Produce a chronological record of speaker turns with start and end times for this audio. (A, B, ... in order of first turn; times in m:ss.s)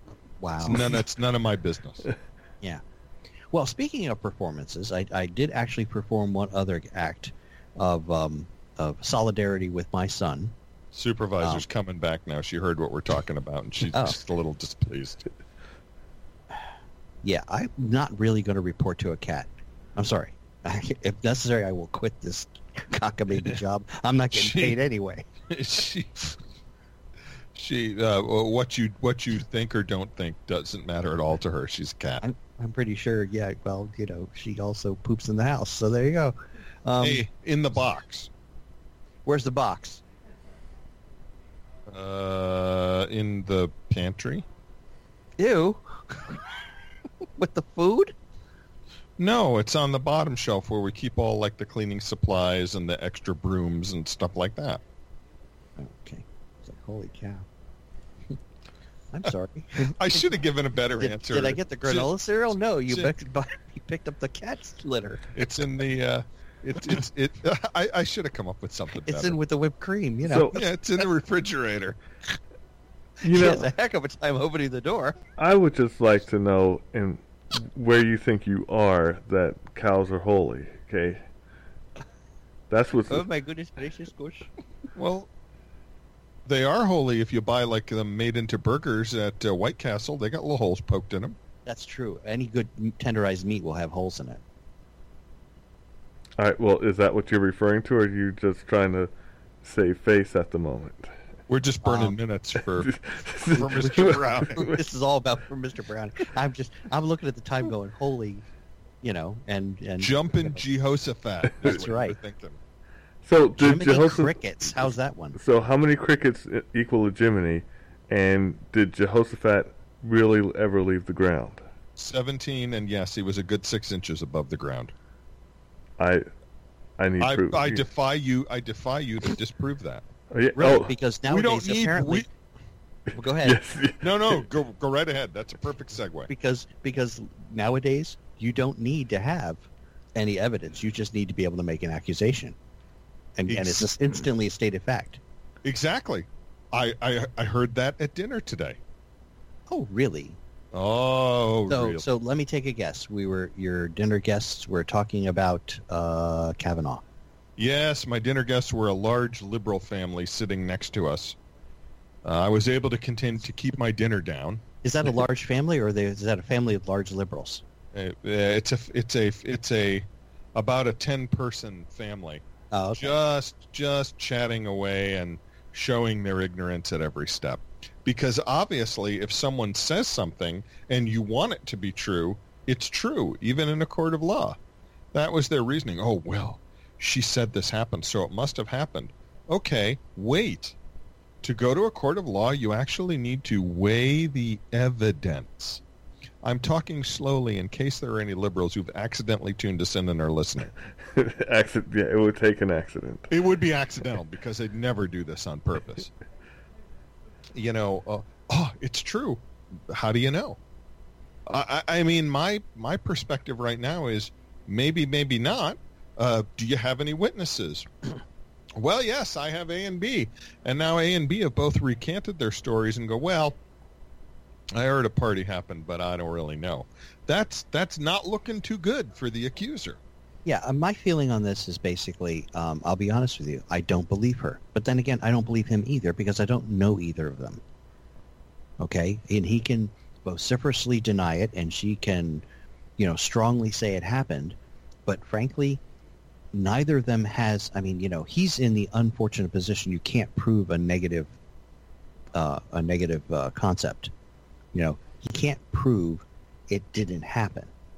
0:00.4-0:01.0 A
0:00.6-0:02.1 B
0:03.5-0:10.6 A
0:10.9-0:15.2 B
0:17.2-0:25.3 A
0:24.3-0:24.8 B
0:25.5-0:26.3 B
0:27.5-0:32.2 B
0:32.2-0:37.2 A
0:37.0-0:38.3 B
0:39.2-0:40.0 A
0:41.9-0:44.5 B
0:45.4-0:46.6 A
0:47.4-0:48.2 A
0:49.2-0:54.8 B
0:55.8-0:57.5 A
0:59.1-1:00.3 A
0:59.8-1:02.1 B
1:01.0-1:05.3 A
1:05.3-1:09.4 B
1:09.0-1:10.6 A
1:10.2-1:10.6 C
1:10.5-1:12.0 B
1:13.2-1:15.2 A
1:13.2-1:13.7 C
1:15.4-1:21.2 C
1:22.7-1:23.3 C
1:23.1-1:24.5 A
1:25.0-1:25.3 B
1:26.5-1:31.4 B
1:31.7-1:34.4 A
1:36.4-1:39.1 C
1:39.6-1:41.1 C
1:41.5-1:42.9 B
1:41.8-1:42.2 A
1:42.8-1:44.8 C
1:43.5-1:44.7 B
1:43.8-1:48.4 A
1:49.0-1:50.6 A
1:50.0-1:52.6 B
1:51.6-1:52.2 A
1:53.2-1:54.4 C
1:53.6-1:55.4 A
1:55.4-2:01.6 C
2:02.0-2:04.9 B
2:06.0-2:06.3 C
2:07.0-2:07.8 C
2:07.2-2:10.1 B
2:10.3-2:11.0 C
2:10.6-2:12.3 A
2:11.3-2:12.3 B
2:13.1-2:13.6 A
2:13.4-2:14.4 C
2:14.0-2:16.3 B
2:16.3-2:22.6 A
2:23.4-2:25.2 A
2:23.5-2:23.8 B
2:25.6-2:28.8 B
2:29.7-2:30.4 A
2:30.7-2:32.0 B
2:31.7-2:37.0 A
2:37.6-2:41.4 B
2:42.2-2:44.6 B
2:44.8-2:47.6 A
2:47.9-2:52.4 B
2:52.7-2:53.2 A
2:53.0-3:04.6 B
3:05.1-3:10.8 B
3:11.4-3:15.8 B
3:16.4-3:20.7 B
3:21.1-3:23.3 C
3:23.3-3:26.1 B
3:27.5-3:30.6 B
3:31.5-3:37.9 B
3:38.8-3:43.6 B
3:44.7-3:50.0 B
3:50.4-3:57.6 A
3:58.8-4:02.4 A
4:03.0-4:05.8 A
4:06.5-4:11.3 A
4:12.4-4:14.1 A
4:14.7-4:17.7 A